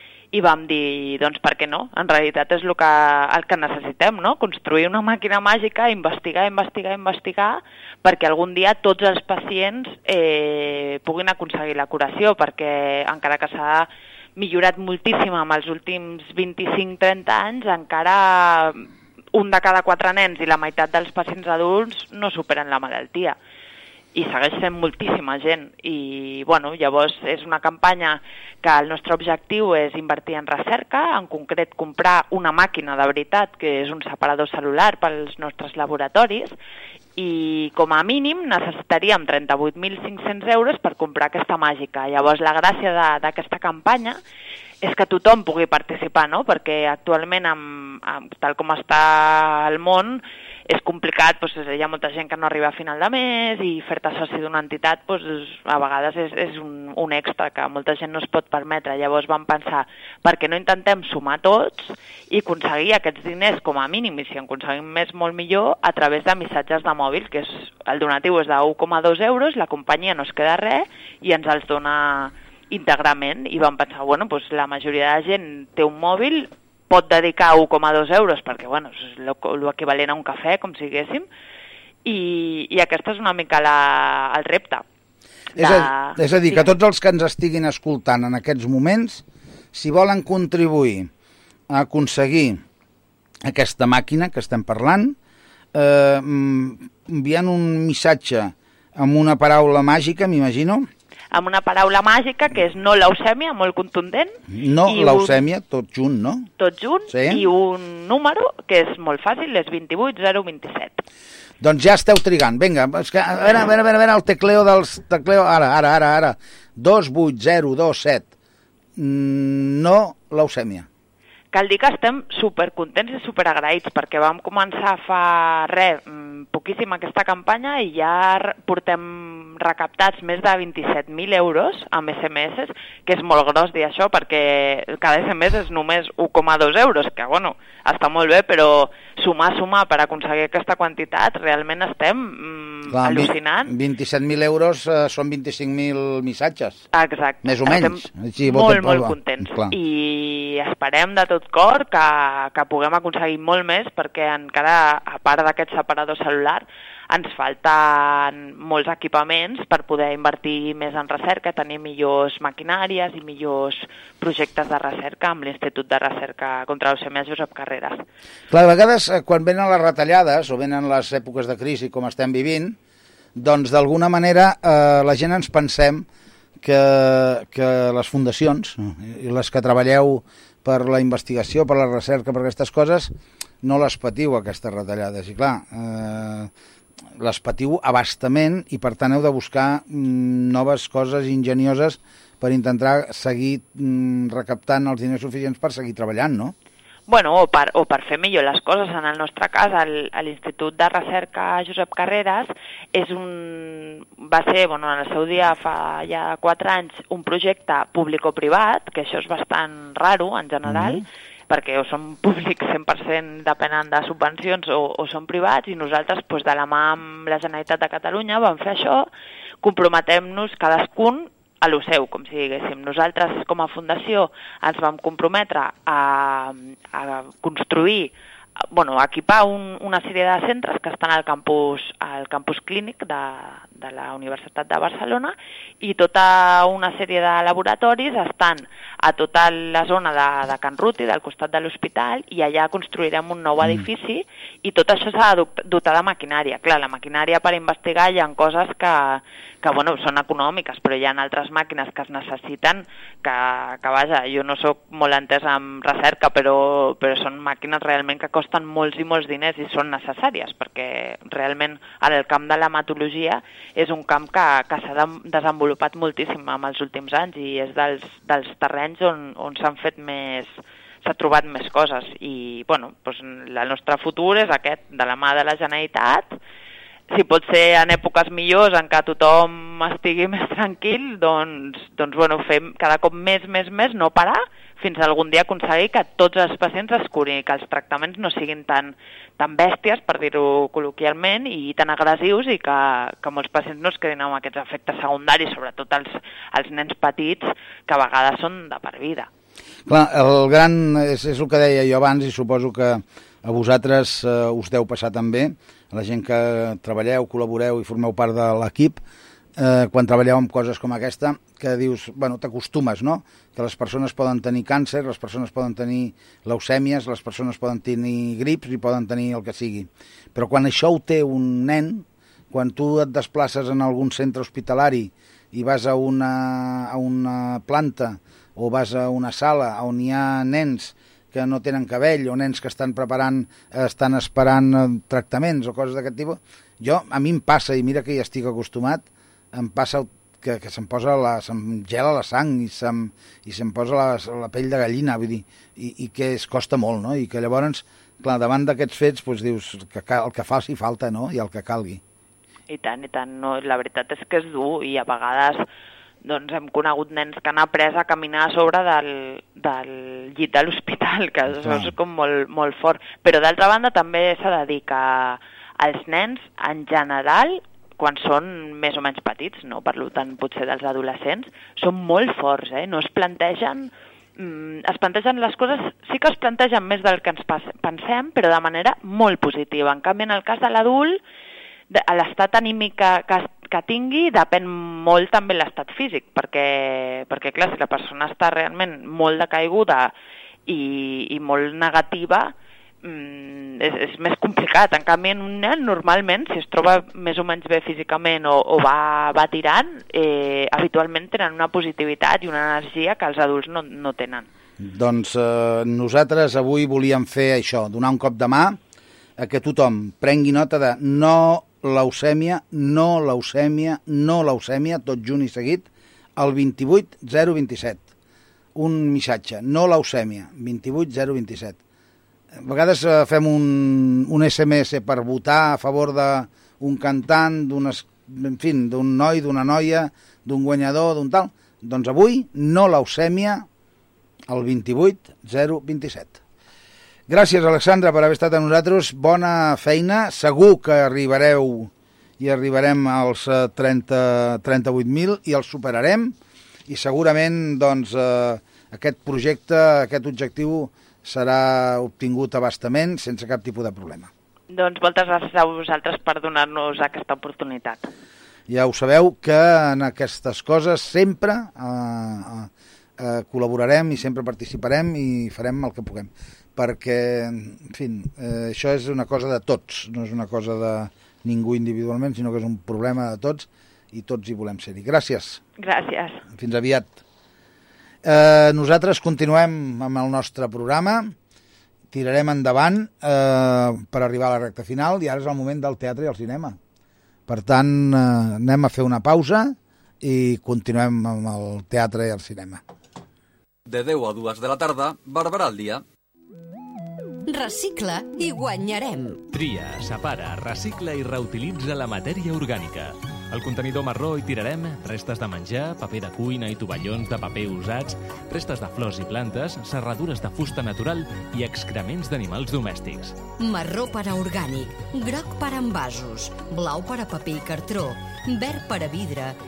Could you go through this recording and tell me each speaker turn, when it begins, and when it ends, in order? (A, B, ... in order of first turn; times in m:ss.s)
0:00.3-0:23.4 A
0:24.2-0:36.5 A
0:37.2-0:44.2 A
0:44.8-1:21.2 A
1:22.1-1:24.8 A
1:25.6-1:26.7 A
1:25.6-1:31.1 B
1:31.7-1:32.6 B
1:33.4-1:35.2 B
1:35.7-1:40.9 B
1:41.3-1:45.4 A
1:44.5-1:46.5 B
1:46.6-1:51.0 A
1:47.1-1:47.4 B
1:51.6-1:58.3 B
1:59.0-2:00.9 B
2:01.5-2:23.7 A
2:22.9-2:26.8 B
2:26.9-2:48.0 A
2:27.4-2:29.7 B
2:48.5-2:52.8 B
2:53.4-2:56.1 B
2:56.6-3:06.5 B
3:07.2-3:16.5 B
3:17.1-3:39.1 A
3:30.7-3:31.0 B
3:39.6-3:48.1 A
3:48.7-4:30.5 A
4:31.0-4:36.4 A
4:37.1-4:59.3 A
4:59.9-5:09.0 B
5:09.6-5:52.0 B
5:52.7-5:55.6 A
5:56.2-6:21.2 A
6:01.5-6:01.9 B
6:21.9-6:30.1 A
6:30.7-6:44.5 A
6:44.8-6:48.8 B
6:49.4-6:58.1 B
6:58.8-7:01.8 B
7:02.6-7:13.7 B
7:14.5-7:16.4 B
7:17.3-7:26.4 B
7:26.9-7:34.3 B
7:34.7-7:38.1 A
7:38.7-7:55.6 B
7:55.8-7:56.4 A
7:56.5-7:57.2 B
7:58.2-8:01.4 B
8:02.1-8:06.8 B
8:07.5-8:12.8 B
8:13.9-8:16.0 C
8:17.6-8:19.2 D
8:19.6-8:23.0 E
8:23.6-8:31.2 E
8:31.7-8:33.3 E
8:33.7-8:34.7 D
8:35.2-8:36.0 D
8:36.7-8:39.2 D